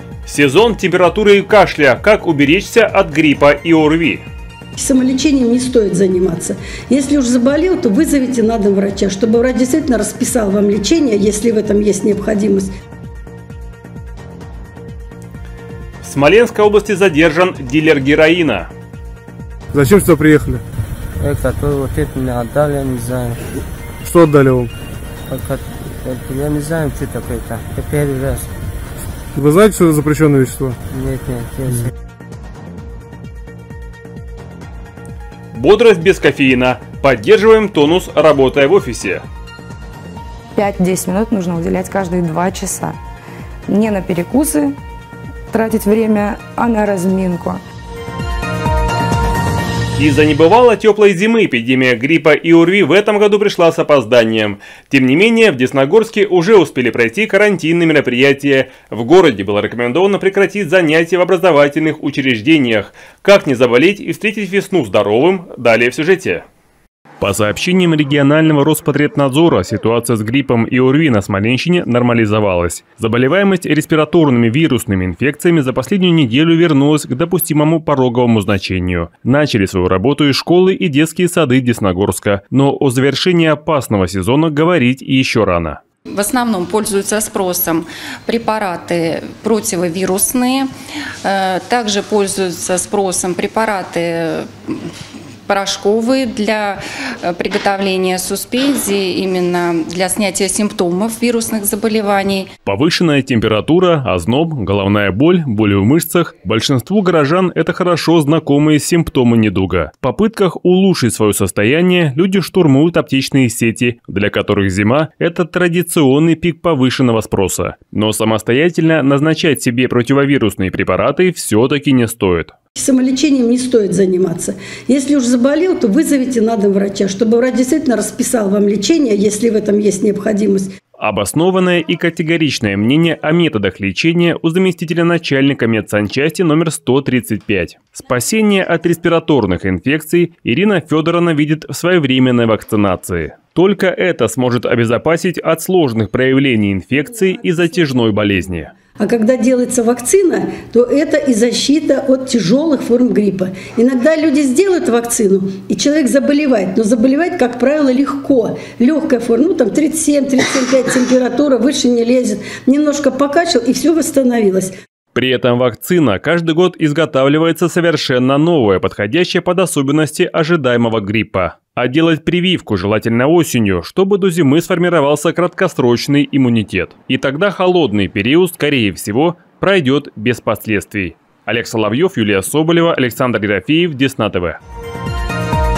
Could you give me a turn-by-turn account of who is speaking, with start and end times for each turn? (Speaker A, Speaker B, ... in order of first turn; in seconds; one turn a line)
Speaker A: 0.2-4.2
Speaker B: 4.8-12.7
Speaker A: 16.0-18.7
Speaker C: 19.7-20.6
Speaker D: 21.2-23.4
Speaker C: 24.0-24.7
Speaker D: 25.3-28.5
Speaker C: 29.3-30.8
Speaker D: 30.9-31.9
Speaker A: 35.5-39.2
Speaker E: 40.5-43.0
Speaker E: 43.7-44.8
Speaker E: 45.5-47.6
Speaker A: 50.0-66.4
Speaker A: 67.2-85.8
Speaker F: 86.0-90.7
Speaker F: 91.2-94.9
Speaker F: 95.5-102.5
Speaker A: 102.7-122.5
Speaker B: 122.8-130.7
Speaker A: 131.0-148.7
Speaker B: 149.0-164.7
Speaker A: 165.1-184.6